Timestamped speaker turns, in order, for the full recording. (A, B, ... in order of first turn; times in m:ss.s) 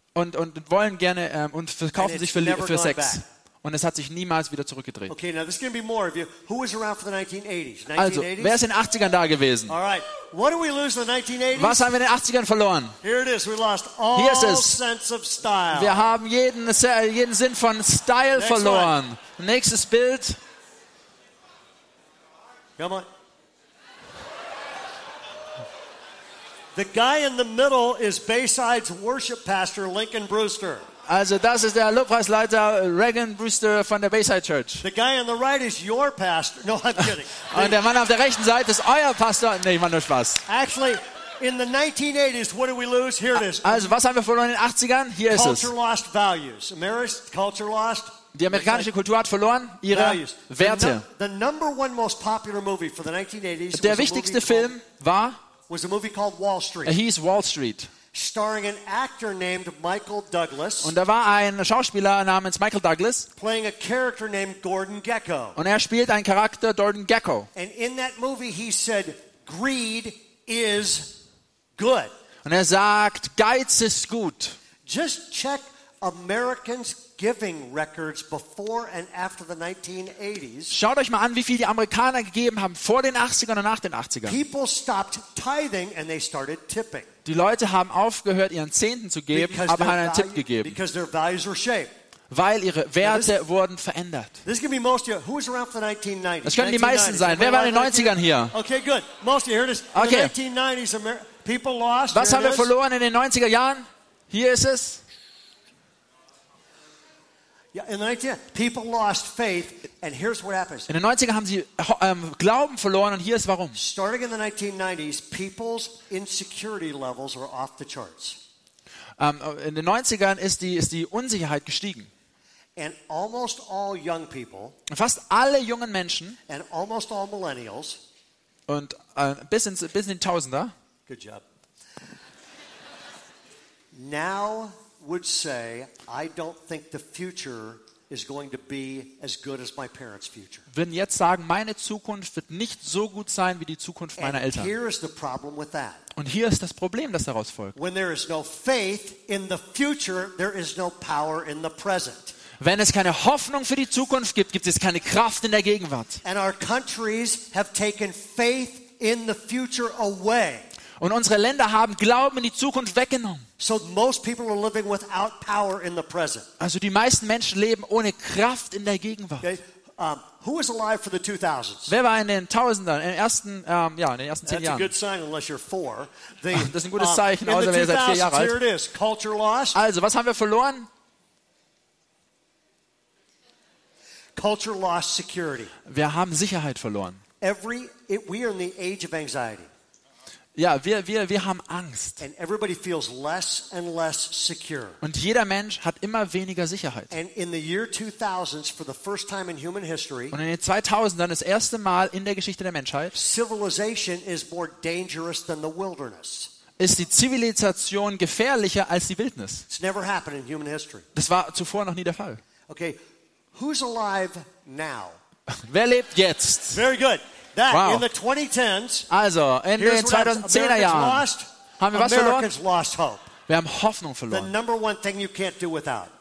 0:00.1-0:05.1 A
0:02.0-0:03.2 B
0:05.1-0:08.5 B
0:08.0-0:09.7 A
0:09.7-0:11.9 B
0:11.5-0:13.0 A
0:13.0-0:16.1 B
0:14.1-0:14.8 A
0:15.7-0:20.4 A
0:18.4-0:18.9 B
0:22.8-0:23.1 B
0:26.7-0:30.9 B
0:31.1-0:34.8 A
0:34.8-0:37.8 B
0:37.4-0:40.4 A
0:40.5-0:43.9 B
0:43.3-0:45.7 A
0:45.3-0:48.9 B
0:48.3-0:51.0 A
0:49.9-0:54.7 B
0:53.7-0:55.4 A
0:55.7-0:57.0 B
0:56.8-0:57.9 A
0:58.1-1:00.9 B
1:00.8-1:03.3 A
1:03.4-1:05.6 B
1:05.6-1:07.5 A
1:07.5-1:11.2 B
1:11.8-1:12.1 B
1:12.4-1:14.6 A
1:14.8-1:20.8 B
1:20.7-1:24.4 A
1:24.2-1:27.1 B
1:27.2-1:30.8 A
1:29.3-1:31.9 B
1:32.3-1:34.4 A
1:33.0-1:33.3 B
1:34.4-1:42.7 B
1:36.4-1:38.5 A
1:39.9-1:40.3 A
1:42.1-1:45.0 A
1:47.7-1:50.9 B
1:50.9-1:53.8 A
1:53.7-1:58.4 B
1:59.2-2:02.1 A
2:02.8-2:04.8 B
2:04.9-2:06.4 A
2:06.5-2:08.0 B
2:08.7-2:10.7 A
2:11.1-2:11.4 B
2:13.9-2:20.6 B
2:20.7-2:24.7 A
2:24.2-2:26.0 B
2:26.2-2:27.7 A
2:27.8-2:32.3 B
2:32.6-2:36.2 A
2:36.2-2:40.7 B
2:41.0-2:43.4 A
2:43.6-2:46.5 B
2:46.6-2:49.5 A
2:49.4-2:51.9 B
2:51.9-2:54.9 A
2:54.4-2:59.8 B
2:56.5-2:58.6 A
2:59.7-3:00.9 A
3:04.4-3:05.7 B
3:05.8-3:07.2 A
3:07.4-3:09.7 B
3:10.5-3:12.2 A
3:12.2-3:15.0 B
3:15.0-3:17.1 A
3:17.1-3:20.4 B
3:20.3-3:23.2 A
3:23.1-3:26.5 B
3:26.8-3:29.6 A
3:29.7-3:31.0 B
3:31.1-3:32.4 A
3:32.7-3:33.0 B
3:33.5-3:35.2 B
3:35.5-3:36.8 A
3:36.7-3:39.1 B
3:37.7-3:38.0 A
3:39.1-3:41.2 A
3:39.8-3:43.3 B
3:41.8-3:42.5 A
3:43.5-3:44.5 A
3:44.3-3:46.1 B